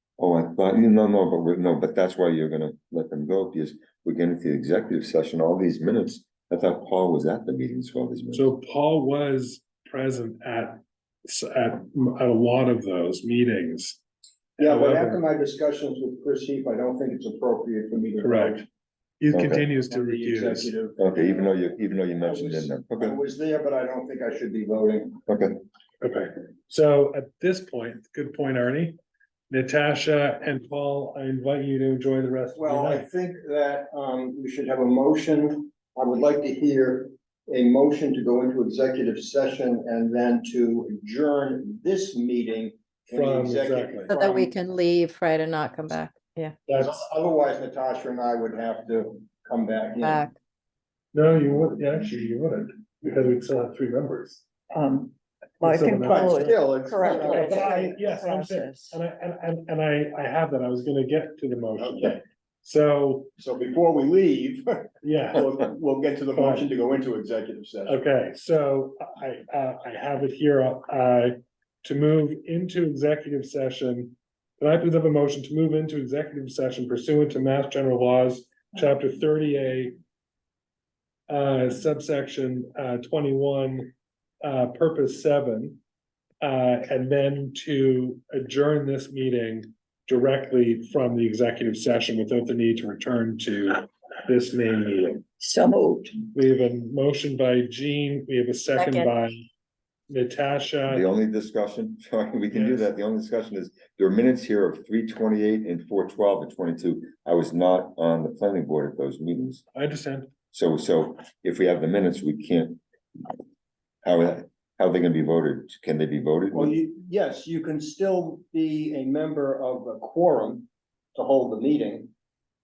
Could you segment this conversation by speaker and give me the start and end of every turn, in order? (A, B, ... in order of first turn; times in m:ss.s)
0:00.2-0:08.5 A
0:08.3-0:14.0 B
0:14.6-0:15.2 B
0:14.6-0:18.7 C
0:18.2-0:18.6 B
0:19.2-0:20.7 B
0:19.3-0:19.7 A
0:19.9-0:21.6 C
0:21.0-0:23.2 A
0:22.1-0:25.2 C
0:25.3-0:25.6 A
0:26.0-0:29.0 B
0:29.5-0:33.1 B
0:32.6-0:44.5 C
0:43.1-0:44.1 B
0:44.1-0:46.6 D
0:46.7-0:47.1 B
0:46.8-0:50.3 C
0:50.0-0:50.3 D
0:51.1-0:54.4 B
0:54.7-0:59.0 E
0:55.6-0:56.7 B
0:56.0-0:58.1 C
0:57.4-1:03.3 B
1:01.8-1:02.2 C
1:03.4-1:08.0 C
1:05.0-1:05.5 B
1:06.4-1:06.7 B
1:07.9-1:20.0 B
1:21.3-1:25.8 B
1:26.4-1:35.2 B
1:35.4-1:36.2 E
1:36.3-1:39.5 B
1:38.8-1:39.1 D
1:40.1-1:41.1 B
1:40.9-1:49.6 A
1:42.5-1:42.9 B
1:49.7-1:50.3 B
1:50.5-1:52.8 A
1:54.0-1:56.8 A
1:56.5-2:02.1 C